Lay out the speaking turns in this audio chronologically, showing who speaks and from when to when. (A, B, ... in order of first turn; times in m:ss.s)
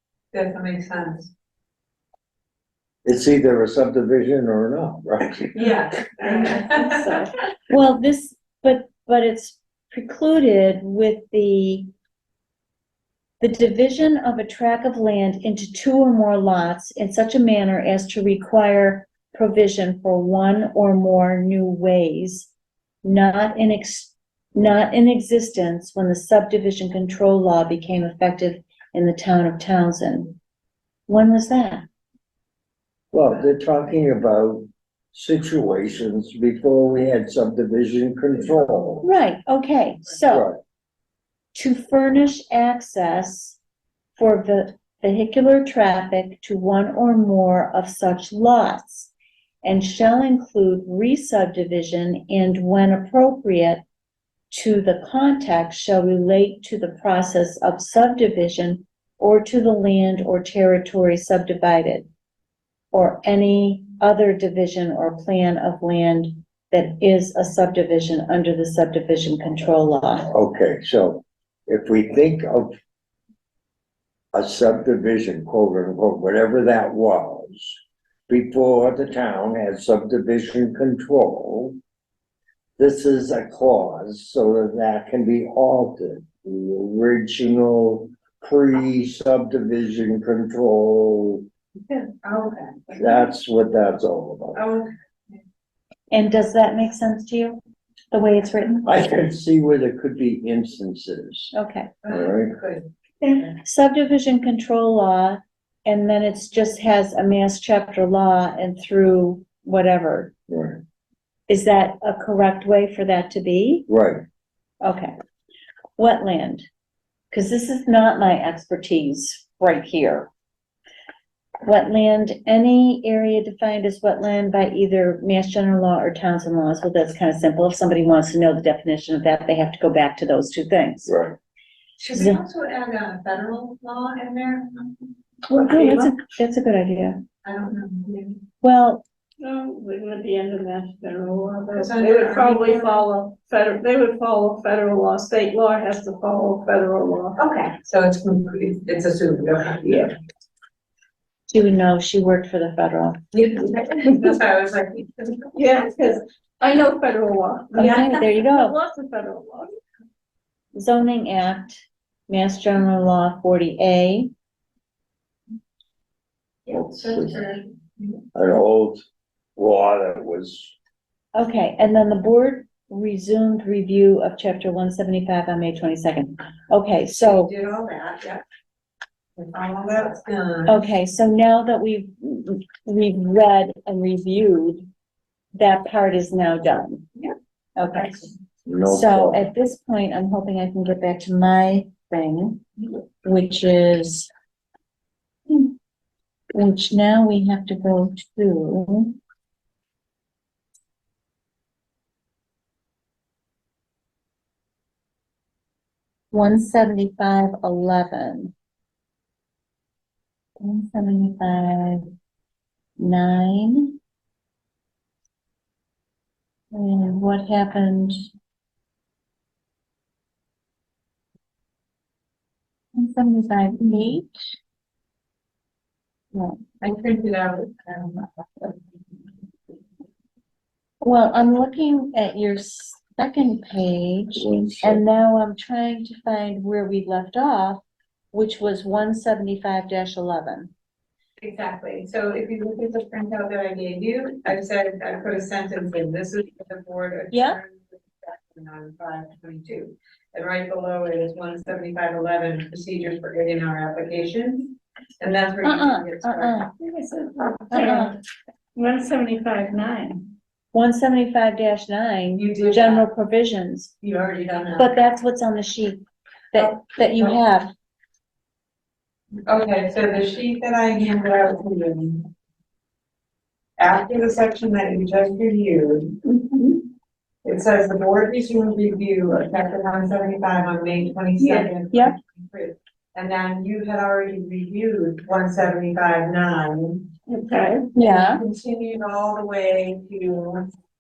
0:00.3-0:01.3 A
0:03.0-0:05.6 B
0:05.5-0:07.1 A
0:06.2-0:07.3 C
0:07.7-0:11.9 D
0:13.4-0:22.5 D
0:23.0-0:30.4 D
0:31.1-0:31.9 D
0:33.1-0:39.0 B
0:39.0-0:40.5 D
0:40.3-0:40.6 B
0:41.6-0:43.6 D
0:44.2-0:49.1 D
0:49.6-0:53.8 D
0:54.5-1:02.1 D
1:02.9-1:10.3 D
1:10.3-1:12.8 B
1:14.3-1:21.8 B
1:22.8-1:31.4 B
1:32.2-1:32.8 A
1:33.0-1:34.6 B
1:34.6-1:34.9 A
1:36.1-1:37.6 D
1:38.1-1:38.9 D
1:38.8-1:41.5 B
1:41.5-1:41.9 D
1:42.0-1:42.9 A
1:42.1-1:42.5 B
1:43.2-1:50.3 D
1:50.5-1:50.8 B
1:51.5-1:53.9 D
1:53.9-1:54.2 B
1:54.8-1:55.1 D
1:56.0-1:56.7 D
1:57.3-2:00.3 D
2:01.6-2:11.2 D
2:11.1-2:11.4 B
2:12.0-2:16.2 A
2:12.1-2:12.4 D
2:15.5-2:17.2 D
2:17.4-2:18.4 A
2:18.6-2:19.0 D
2:19.4-2:27.4 C
2:21.8-2:23.0 A
2:27.4-2:30.1 A
2:31.5-2:33.2 D
2:33.3-2:35.6 A
2:35.5-2:39.7 C
2:37.8-2:38.8 D
2:37.8-2:38.1 A
2:40.7-2:44.3 D
2:46.7-2:48.1 A
2:46.7-2:47.5 B
2:48.4-2:49.0 B
2:49.6-2:50.8 B
2:51.4-2:57.5 D
2:57.1-2:58.4 A
2:59.4-3:00.8 A
3:00.7-3:04.9 D
3:05.6-3:07.1 D
3:07.8-3:08.3 D
3:08.7-3:09.4 B
3:08.9-3:12.6 D
3:13.2-3:14.3 D
3:15.5-3:15.7 D
3:16.5-3:19.2 D
3:26.3-3:28.5 D
3:30.6-3:32.0 D
3:33.0-3:34.0 D
3:36.7-3:38.2 D
3:43.0-3:44.4 D
3:46.8-3:48.7 A
3:51.0-4:00.7 D
3:54.4-3:55.0 B
4:01.4-4:16.6 A
4:07.3-4:07.6 D
4:15.6-4:16.7 D
4:16.8-4:18.2 C
4:17.7-4:18.2 D
4:18.8-4:20.3 C
4:20.7-4:23.9 D
4:22.4-4:23.1 A
4:24.0-4:24.9 A
4:24.8-4:27.7 D
4:26.6-4:27.4 A
4:29.5-4:32.3 A
4:33.8-4:36.2 A
4:37.4-4:47.1 A
4:41.4-4:41.7 C
4:47.3-4:47.9 C
4:48.0-4:48.4 D
4:48.1-4:50.6 A